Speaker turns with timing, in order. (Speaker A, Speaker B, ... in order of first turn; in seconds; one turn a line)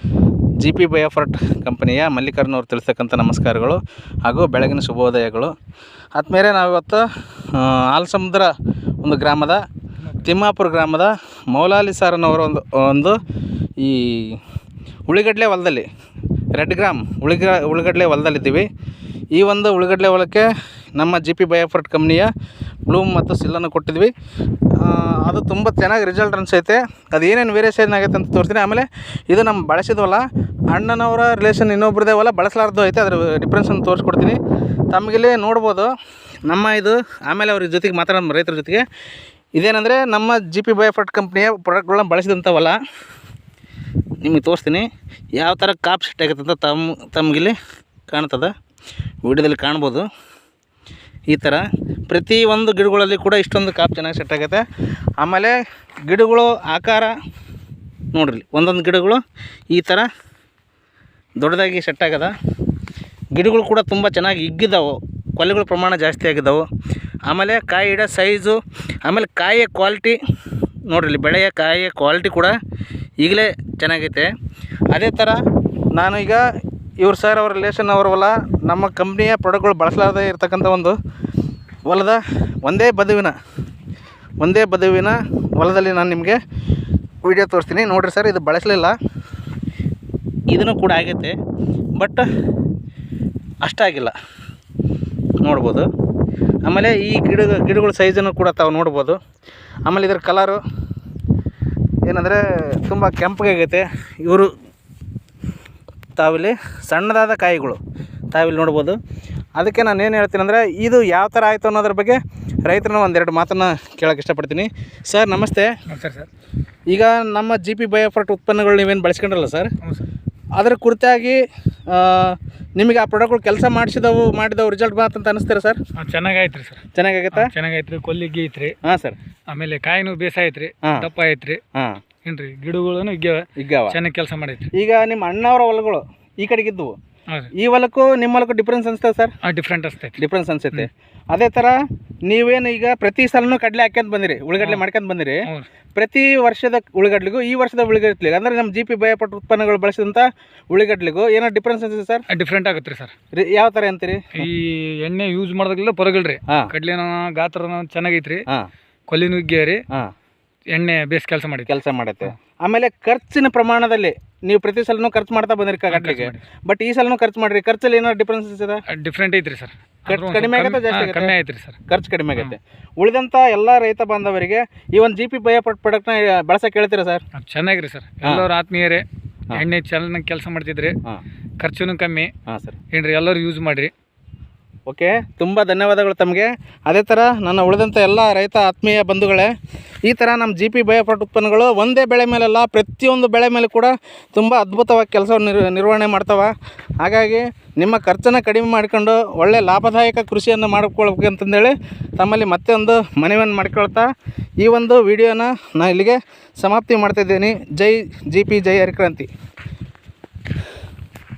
Speaker A: 0.6-5.5
Speaker A: 6.2-8.5
Speaker A: 9.0-9.7
Speaker A: 10.2-13.2
Speaker A: 13.8-14.4
Speaker A: 15.1-15.9
Speaker A: 16.6-18.7
Speaker A: 19.3-22.3
Speaker A: 22.9-24.1
Speaker A: 24.8-34.4
Speaker A: 34.9-35.9
Speaker A: 36.5-38.9
Speaker A: 39.6-42.8
Speaker A: 44.2-44.9
Speaker A: 45.4-47.5
Speaker A: 48.1-48.5
Speaker A: 49.2-50.0
Speaker A: 51.3-54.6
Speaker A: 55.2-55.5
Speaker A: 56.1-57.1
Speaker A: 58.1-60.1
Speaker A: 61.4-62.3
Speaker A: 63.3-66.7
Speaker A: 67.3-70.2
Speaker A: 70.9-72.6
Speaker A: 73.2-74.3
Speaker A: 74.9-75.4
Speaker A: 75.9-76.4
Speaker A: 77.0-81.0
Speaker A: 81.9-83.4
Speaker A: 84.4-86.4
Speaker A: 87.2-89.0
Speaker A: 90.5-91.4
Speaker A: 92.0-92.3
Speaker A: 93.6-94.2
Speaker A: 95.4-95.9
Speaker A: 96.7-99.2
Speaker A: 99.9-100.6
Speaker A: 102.1-104.5
Speaker A: 106.2-107.8
Speaker A: 108.3-109.0
Speaker A: 109.6-115.7
Speaker B: 115.9-116.3
Speaker A: 116.9-119.7
Speaker A: 120.6-125.8
Speaker B: 126.0-128.8
Speaker A: 126.9-127.5
Speaker A: 128.8-129.2
Speaker B: 129.5-131.6
Speaker A: 131.8-132.0
Speaker B: 132.2-134.7
Speaker A: 133.6-134.0
Speaker A: 134.7-136.9
Speaker A: 137.6-139.4
Speaker B: 139.4-140.2
Speaker A: 140.2-152.2
Speaker B: 152.3-153.1
Speaker A: 153.3-154.4
Speaker B: 154.4-158.4
Speaker B: 159.1-159.8
Speaker B: 160.7-161.7
Speaker A: 161.7-168.8
Speaker B: 165.9-166.4
Speaker B: 168.9-171.8
Speaker A: 170.1-171.3
Speaker A: 171.9-177.2
Speaker B: 177.3-181.0
Speaker B: 181.6-182.3
Speaker A: 182.5-182.8
Speaker B: 182.9-183.9
Speaker A: 184.9-189.5
Speaker A: 190.1-204.1
Speaker A: 204.6-209.3